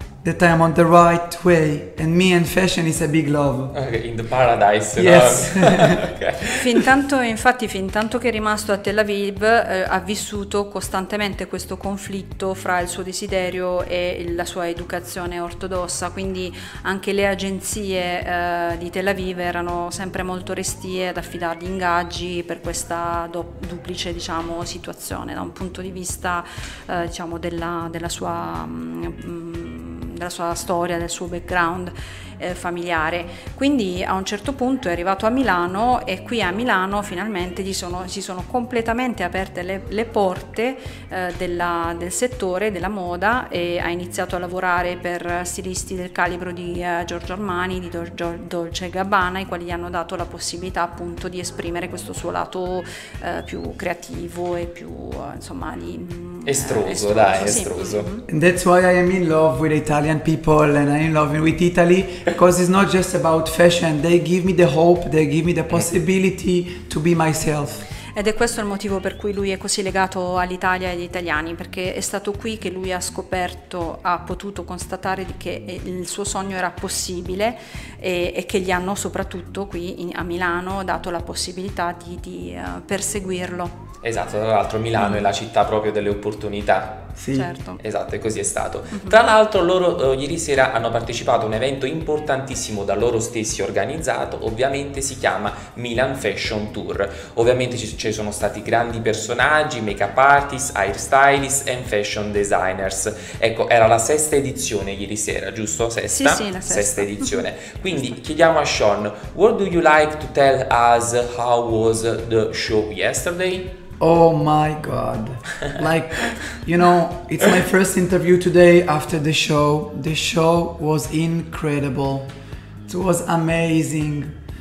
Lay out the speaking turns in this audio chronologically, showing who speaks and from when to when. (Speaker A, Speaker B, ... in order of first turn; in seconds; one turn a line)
Speaker A: 0.2-3.7
Speaker B: 3.7-6.8
Speaker A: 5.0-6.0
Speaker C: 6.6-58.2
Speaker B: 56.5-58.1
Speaker A: 58.3-67.8
Speaker C: 68.1-83.8
Speaker B: 84.0-87.1
Speaker C: 85.0-85.2
Speaker A: 87.2-87.5
Speaker C: 87.3-87.8
Speaker B: 87.8-113.7
Speaker C: 88.9-89.2
Speaker C: 106.1-107.4
Speaker A: 114.0-122.3
Speaker A: 122.9-124.3